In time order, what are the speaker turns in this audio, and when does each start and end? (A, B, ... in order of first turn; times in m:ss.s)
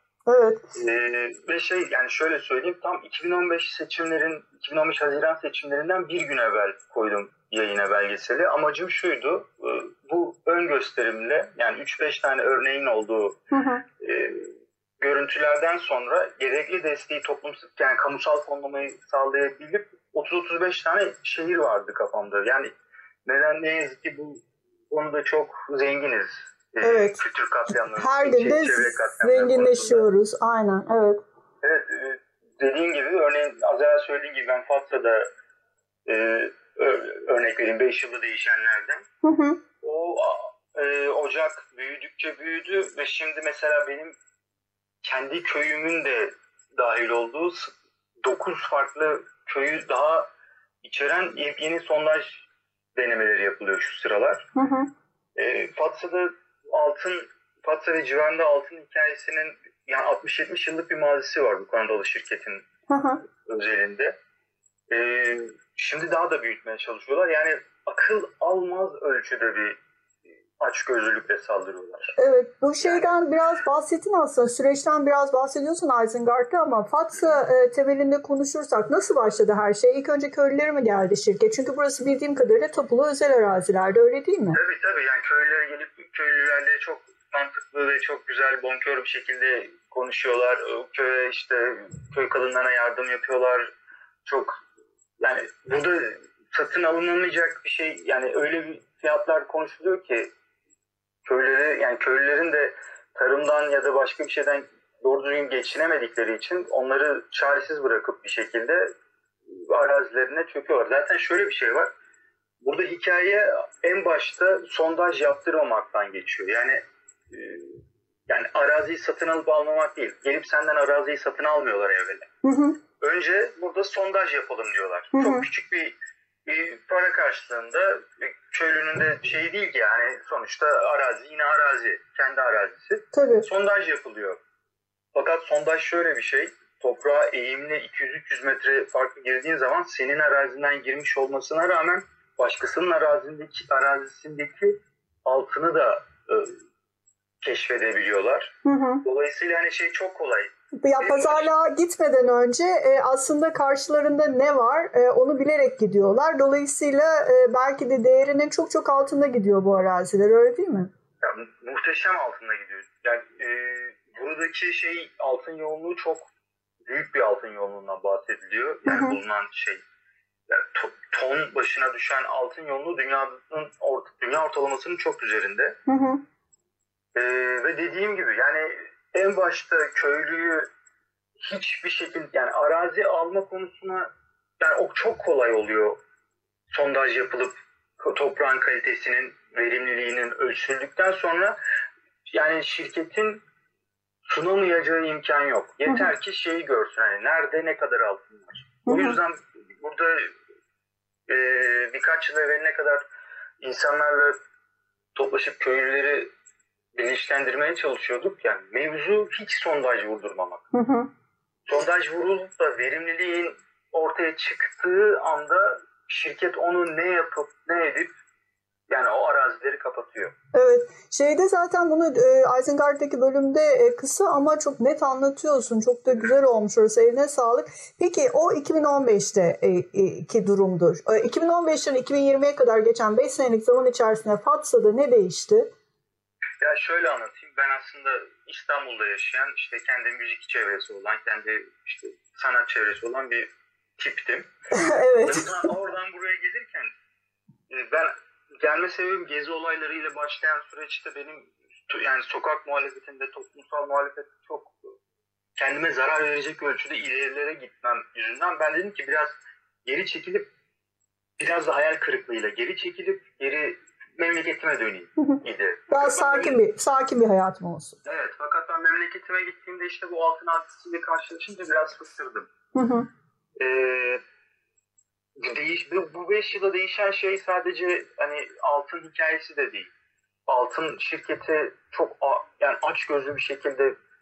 0:00.3-0:00.6 A
0:00.8-0:13.4 B
0:13.5-0:13.8 A
0:14.0-0:22.7 B
0:23.2-0:30.1 B
0:26.8-0:27.2 A
0:28.0-0:31.2 A
0:31.6-0:35.3 B
0:36.1-0:39.1 B
0:39.2-0:39.6 A
0:39.8-0:44.2 B
0:45.0-0:50.3 B
0:50.8-0:54.5 B
0:54.6-0:54.9 A
0:55.4-1:02.7 B
1:02.9-1:03.2 A
1:03.4-1:04.2 B
1:04.9-1:09.8 B
1:10.6-1:12.2 B
1:12.2-1:24.6 A
1:24.5-1:33.7 B
1:34.2-1:34.6 B
1:35.2-1:40.3 B
1:41.2-1:48.9 B
1:49.5-1:51.9 B
1:52.6-2:02.3 B
2:02.4-2:02.8 A
2:03.0-2:14.4 B
2:05.1-2:05.5 A
2:13.1-2:13.5 A
2:15.1-2:26.5 B
2:27.4-2:31.5 B
2:28.6-2:29.0 A
2:30.8-2:40.9 A
2:41.2-2:46.3 B
2:46.9-2:49.8 B
2:48.9-2:49.2 A
2:50.5-2:55.8 B
2:55.9-2:56.2 A
2:57.2-3:00.7 B
3:01.4-3:04.1 B
3:04.6-3:06.0 B
3:06.7-3:11.6 B
3:12.3-3:13.4 B
3:14.3-3:20.3 B
3:18.9-3:19.2 A
3:21.3-3:23.0 B
3:23.6-3:24.4 B
3:25.2-3:26.3 B
3:26.9-3:30.6 B
3:30.7-3:31.1 A
3:31.7-3:38.1 B
3:38.9-3:40.3 B
3:40.5-3:55.7 A
3:56.6-4:04.5 B
4:04.7-4:05.7 A
4:05.2-4:06.9 B
4:07.7-4:14.7 B
4:15.6-4:20.5 B
4:21.4-4:26.6 B
4:25.2-4:28.0 A
4:28.0-4:32.5 B
4:32.8-4:33.1 A
4:33.6-4:34.2 B
4:35.4-4:39.9 B
4:40.5-4:44.0 B